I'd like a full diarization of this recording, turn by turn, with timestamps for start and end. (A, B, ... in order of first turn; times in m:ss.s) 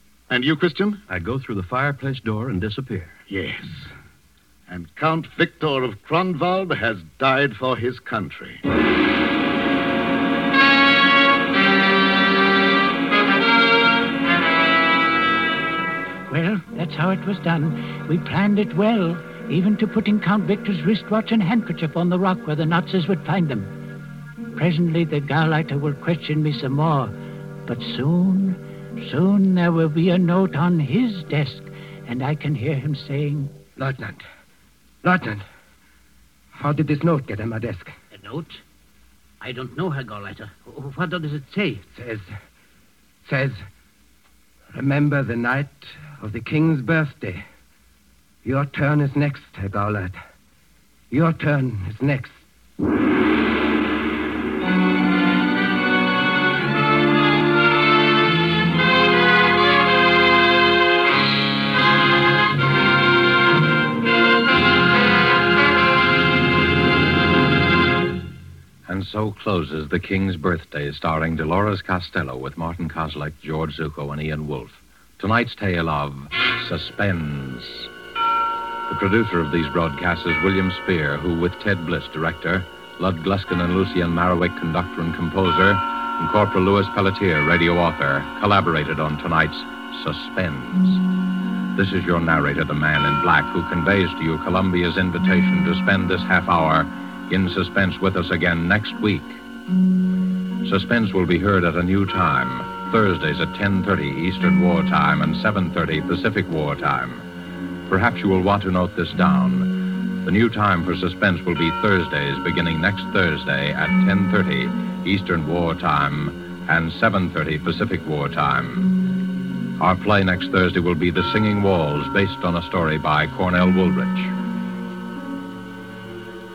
0:00.3-0:01.0 A
0:01.1-0:03.2 B
0:03.3-0:03.9 A
0:04.7-0:08.6 A
0:16.3-0:23.7 C
0:24.5-0:27.1 C
0:27.6-0:33.5 C
0:33.8-0:34.2 D
0:35.0-0:35.4 D
0:36.5-0:37.9 D
0:38.1-0:38.6 E
0:39.4-0:41.8 E
0:41.9-0:42.3 D
0:43.2-0:43.6 D
0:44.7-0:47.4 D
0:48.4-0:50.2 D
0:51.1-0:52.4 D
1:08.9-1:17.9 F
1:18.9-1:31.0 F
1:31.7-1:39.4 F
1:40.6-1:47.2 F
1:47.9-1:59.0 F
1:59.8-2:04.3 F